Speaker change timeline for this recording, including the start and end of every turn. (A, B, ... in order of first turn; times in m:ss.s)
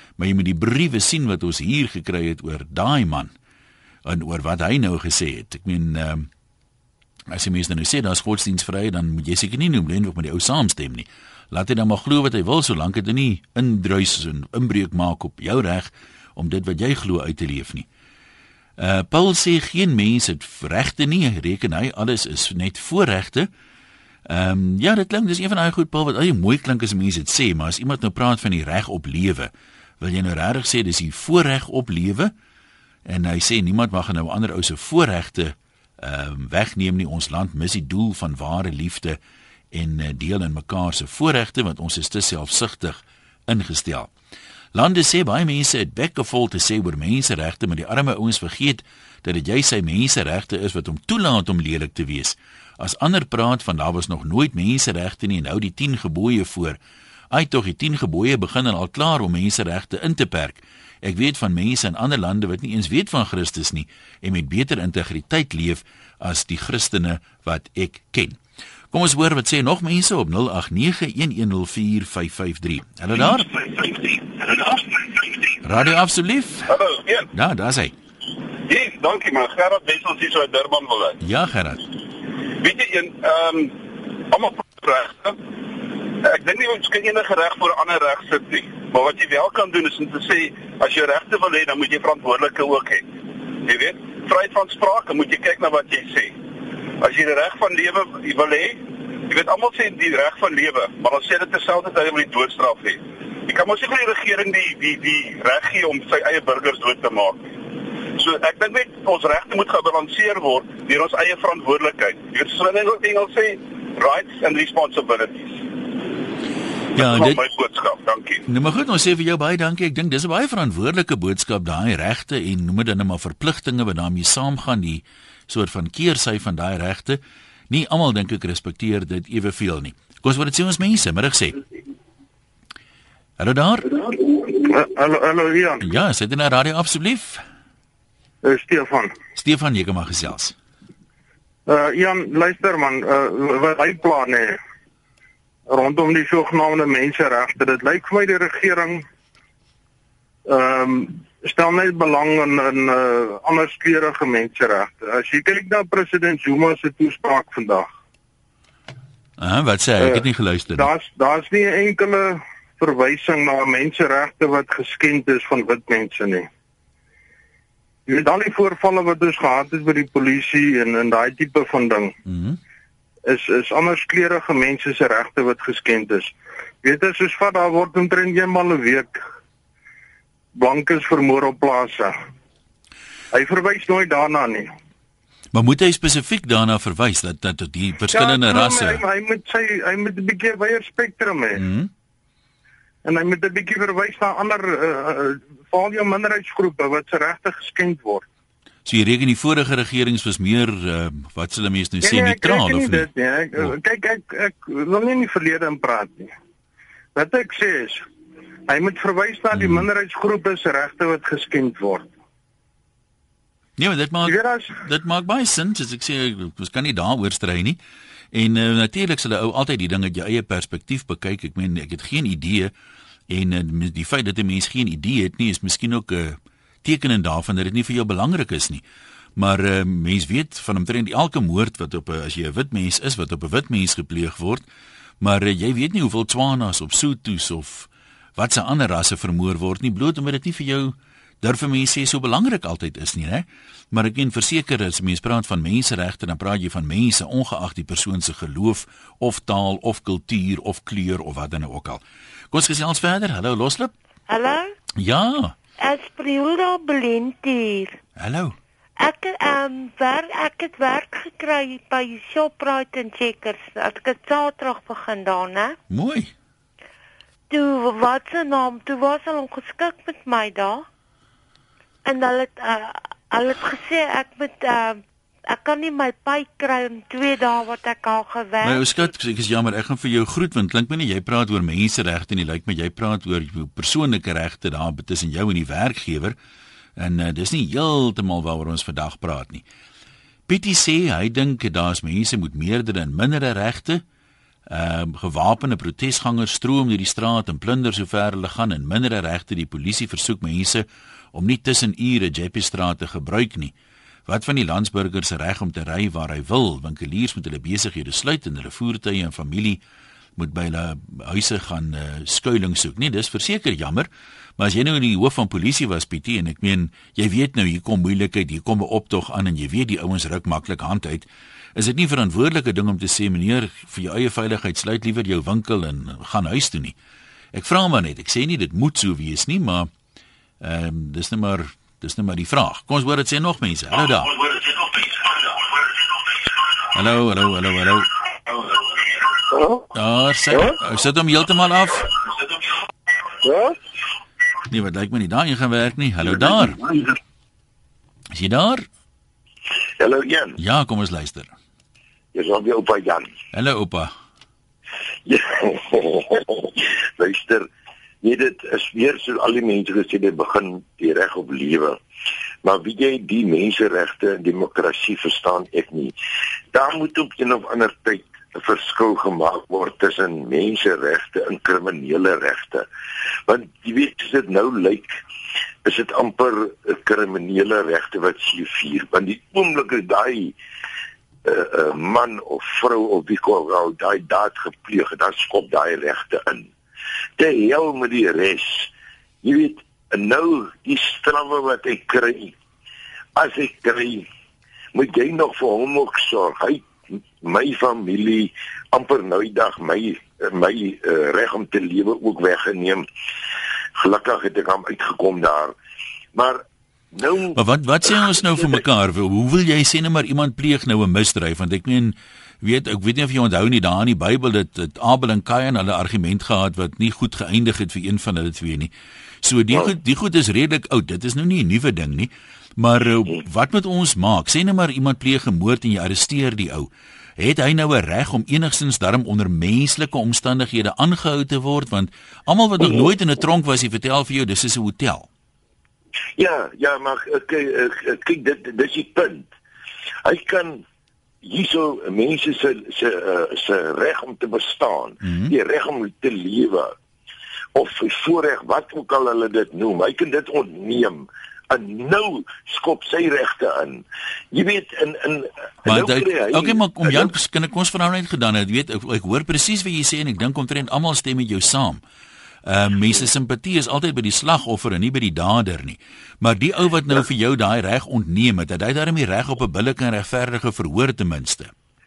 0:00.2-0:03.3 A
0:04.0-0:06.3 A
0:07.3-0:17.9 A
0:18.8-0:23.5 A
0:24.3-0:32.3 A
0:33.1-0:39.2 A
0:39.7-0:44.1 A
0:44.7-0:56.8 A
0:57.3-1:08.4 A
1:08.9-1:13.5 A
1:14.4-1:15.0 B
1:15.6-1:16.8 A
1:16.7-1:17.3 B
1:17.3-1:18.0 A
1:18.7-1:21.2 B
1:21.2-1:21.8 A
1:22.6-1:23.8 B
1:24.3-1:25.4 B
1:26.2-1:33.0 B
1:33.6-1:36.4 B
1:37.0-1:47.4 B
1:48.2-1:55.6 B
1:57.0-1:58.4 B
1:57.0-1:57.4 A
1:58.5-2:11.6 A
2:13.4-2:14.0 A
2:14.4-2:15.9 C
2:15.8-2:17.4 A
2:18.4-2:19.1 C
2:19.4-2:20.6 A
2:21.7-2:24.6 C
2:25.7-2:29.0 C
2:30.5-2:37.9 C
2:39.4-2:40.9 A
2:40.0-2:40.2 C
2:40.8-2:46.5 C
2:48.1-2:52.1 C
2:52.3-2:52.6 A
2:53.3-2:59.2 C
3:00.6-3:02.1 C
3:03.3-3:04.7 C
3:05.5-3:09.0 A
3:08.1-3:11.6 C
3:11.6-3:11.9 A
3:13.0-3:18.3 C
3:18.9-3:23.7 A
3:22.0-3:26.3 C
3:27.2-3:28.0 C
3:28.7-3:32.1 C
3:29.5-3:29.9 A
3:33.8-3:37.8 A
3:34.2-3:34.8 C
3:38.3-3:42.7 A
3:43.3-3:48.8 A
3:49.4-3:54.6 A
3:55.2-4:13.9 A
4:14.3-4:14.7 D
4:15.0-4:15.6 A
4:15.8-4:18.0 D
4:18.2-4:18.6 A
4:19.0-4:25.8 D
4:25.9-4:26.3 A
4:27.5-4:30.9 D
4:32.0-4:39.1 D
4:38.6-4:46.4 A
4:47.0-4:49.6 A
4:50.5-4:54.0 A
4:54.7-5:03.7 A
5:04.3-5:09.8 A
5:10.4-5:27.0 A
5:27.5-5:29.9 A
5:30.6-5:34.4 A
5:36.9-5:38.1 A
5:39.9-5:42.1 A
5:44.7-5:46.8 A
5:48.3-5:48.9 A
5:50.0-5:50.6 E
5:50.6-5:51.5 A
5:52.3-5:53.3 E
5:53.5-5:54.1 A
5:55.3-5:57.7 E
5:58.2-6:02.0 E
6:02.6-6:06.1 E
6:06.7-6:12.9 E
6:13.5-6:15.2 E
6:15.8-6:20.6 E
6:21.4-6:26.7 E
6:27.4-6:28.9 E
6:29.4-6:32.6 E
6:33.4-6:34.3 E
6:34.9-6:36.9 E
6:37.4-6:43.1 E
6:44.0-6:45.8 E
6:46.4-6:47.6 E
6:47.6-6:58.9 A
6:59.4-7:15.3 A
7:16.4-7:19.5 E
7:20.2-7:20.8 E
7:21.4-7:26.9 E
7:25.2-7:25.5 A
7:27.8-7:37.3 E
7:35.8-7:42.0 A
7:42.7-7:51.7 A